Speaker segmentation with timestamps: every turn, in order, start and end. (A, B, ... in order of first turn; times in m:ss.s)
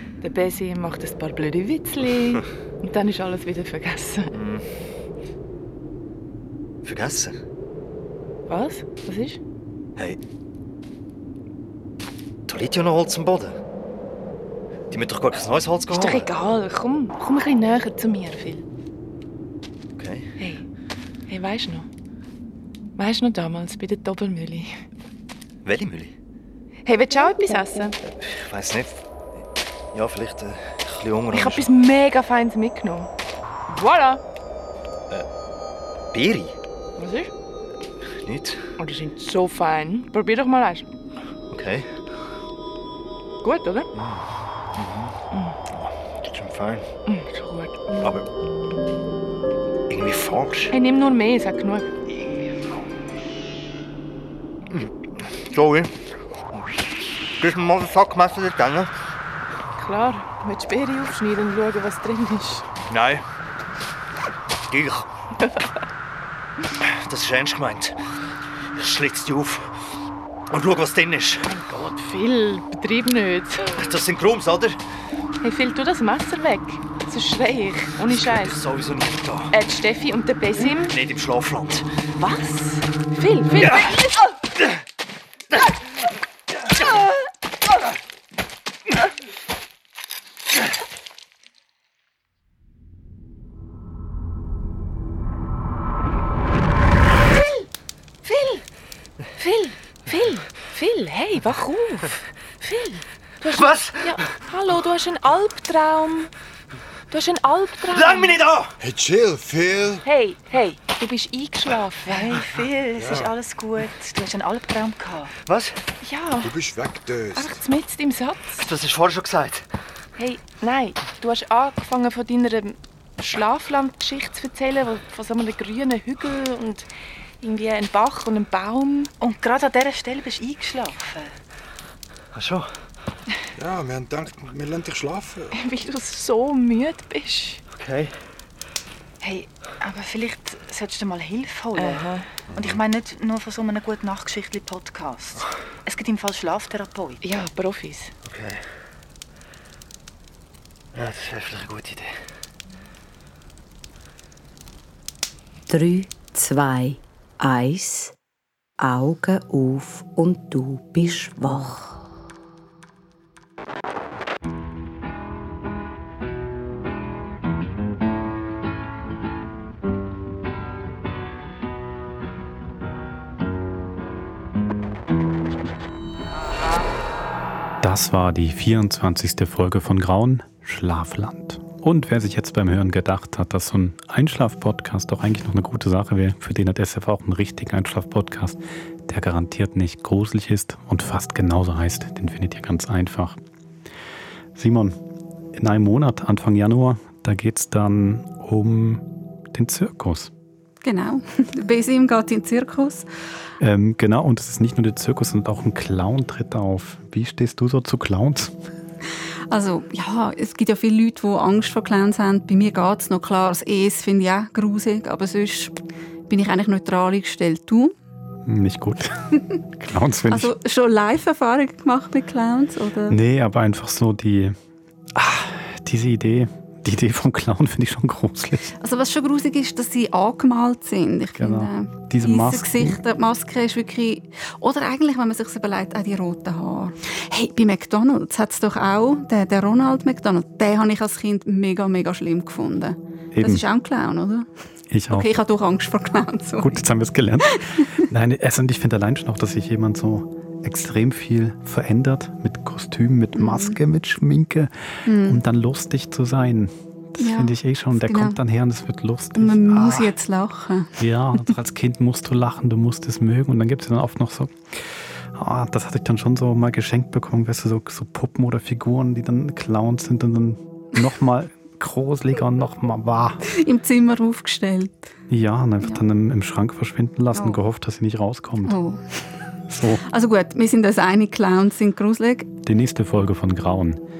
0:00.2-0:04.3 A
0:04.3-0:04.6 B
0:06.8-0:07.3 B
0:08.5-0:09.4 A
0:12.5-0:13.6 B
0:14.9-0:16.3 B
0:15.9-0:18.6 A
0:20.0-0:20.3 B
0:20.4-0:20.6 A
0:21.3-0:21.8 A
0:23.0-0:24.7 A
0:25.6-0:26.1 B
0:26.8-0:28.0 A
0:28.0-0:29.0 B
0:29.9-0:31.7 B
0:31.3-0:33.1 A
0:33.7-0:34.2 A
0:36.1-0:36.6 B
0:37.0-0:37.3 A
0:38.2-0:38.7 B
0:38.8-0:40.8 A
0:41.5-0:41.9 B
0:43.4-0:43.9 A
0:43.9-0:44.2 B
0:44.8-0:45.2 B
0:45.3-0:45.6 A
0:45.7-0:46.9 B
0:47.1-0:47.7 A
0:48.0-0:48.2 B
0:49.9-0:50.7 B
0:50.7-0:51.9 A
0:52.1-0:52.5 B
0:54.7-0:55.9 B
0:57.4-0:58.9 B
0:59.8-1:02.6 A
1:02.9-1:03.2 B
1:04.7-1:05.1 B
1:05.4-1:05.7 A
1:06.8-1:08.0 B
1:08.7-1:09.8 B
1:10.5-1:11.5 B
1:11.4-1:13.7 A
1:13.6-1:14.8 B
1:15.4-1:18.6 A
1:18.0-1:19.5 B
1:19.5-1:21.0 A
1:20.8-1:21.9 B
1:22.2-1:24.2 A
1:23.5-1:24.8 B
1:26.5-1:27.0 B
1:37.3-1:37.6 A
1:38.2-1:38.6 A
1:39.4-1:46.3 A
1:43.5-1:44.2 B
1:47.1-1:48.4 A
1:47.9-1:48.8 B
1:48.8-1:50.0 C
1:50.0-1:53.9 A
1:52.8-1:55.3 D
1:53.0-1:53.3 C
1:53.1-1:53.3 B
1:55.4-1:55.8 B
1:56.0-1:56.6 A
1:56.4-1:57.6 C
1:57.3-1:58.6 A
1:58.5-1:59.6 B
2:00.2-2:06.9 A
2:07.4-2:09.1 A
2:09.2-2:11.3 D
2:12.3-2:12.7 B
2:13.6-2:15.5 C
2:15.5-2:17.6 A
2:17.7-2:18.1 B
2:19.2-2:27.5 D
2:21.7-2:22.3 A
2:27.2-2:28.1 A
2:28.2-2:28.6 B
2:30.9-2:32.1 B
2:35.7-2:38.1 E
2:38.8-2:42.0 E
2:57.8-3:13.4 F
3:14.5-3:15.0 F
3:15.5-3:20.3 F
3:20.8-3:23.1 G
3:23.6-3:28.5 F
3:29.5-3:37.9 G
3:38.4-3:39.2 F
3:39.7-3:40.5 F
3:40.3-3:43.2 G
3:43.1-3:44.6 F
3:45.1-3:48.7 F
3:48.8-4:04.5 G
3:51.4-3:53.0 F
4:03.3-4:03.6 F
4:04.9-4:05.3 F
4:05.1-4:06.8 G
4:06.6-4:20.1 F
4:07.4-4:07.9 G
4:13.4-4:13.8 G
4:15.0-4:15.4 G
4:17.2-4:18.4 G
4:19.3-4:20.9 G
4:21.0-4:33.5 F
4:33.5-4:35.1 G
4:35.3-4:38.8 F
4:37.3-4:37.6 G
4:38.6-4:39.2 G
4:39.7-4:40.0 F
4:40.1-4:42.5 G
4:42.6-4:44.0 F